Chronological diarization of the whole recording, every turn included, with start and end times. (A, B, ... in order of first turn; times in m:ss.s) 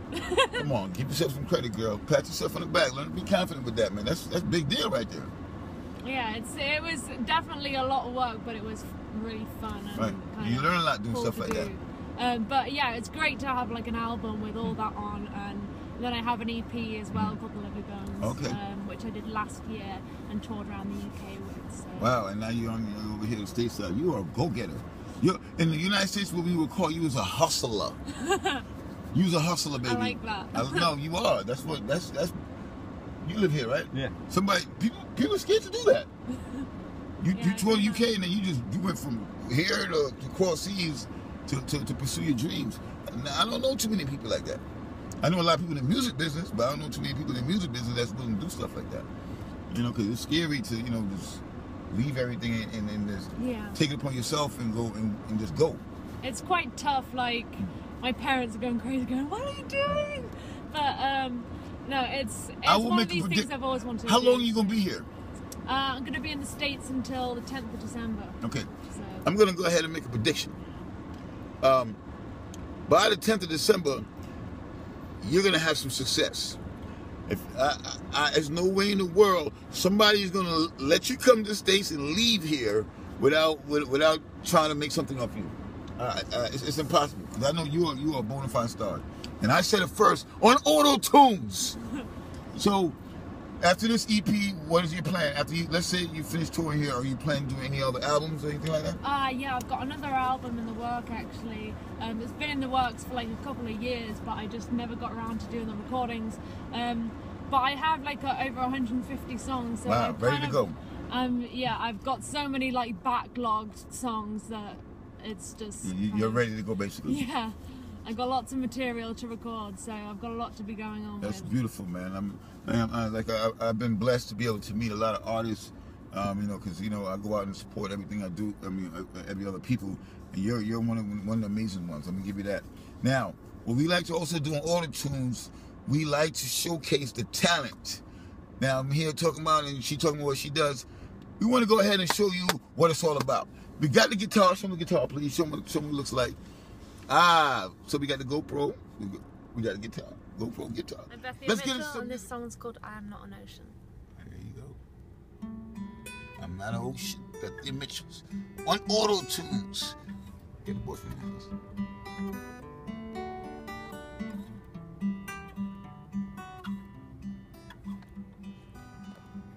0:00.2-0:00.6 A
0:00.6-0:05.3 B
0:06.0-0:22.1 A
0:09.9-0:11.7 B
0:18.2-0:18.6 B
0:22.0-0:28.0 B
0:28.2-0:28.6 A
0:29.1-0:32.4 B
0:29.8-0:30.9 A
0:33.2-0:36.1 B
0:37.2-0:44.6 B
0:37.3-0:38.1 A
0:45.2-0:49.1 B
0:49.7-0:55.8 B
0:53.4-0:53.8 A
0:56.2-1:04.8 A
0:59.8-1:00.2 B
1:02.6-1:03.5 B
1:04.0-1:05.1 B
1:05.6-1:09.3 A
1:08.4-1:08.7 B
1:09.2-1:10.6 B
1:11.6-1:12.0 B
1:12.9-1:14.1 B
1:15.2-1:16.6 B
1:17.3-1:31.8 B
1:32.5-1:33.0 B
1:33.6-1:39.0 B
1:39.0-1:56.4 A
1:49.8-1:50.8 B
1:55.8-1:57.2 B
1:57.0-2:01.5 A
2:01.2-2:18.0 B
2:18.6-2:20.8 B
2:21.4-2:26.4 B
2:27.1-2:32.3 B
2:31.1-2:33.8 A
2:34.2-2:34.8 B
2:36.4-2:40.0 B
2:40.6-2:41.5 B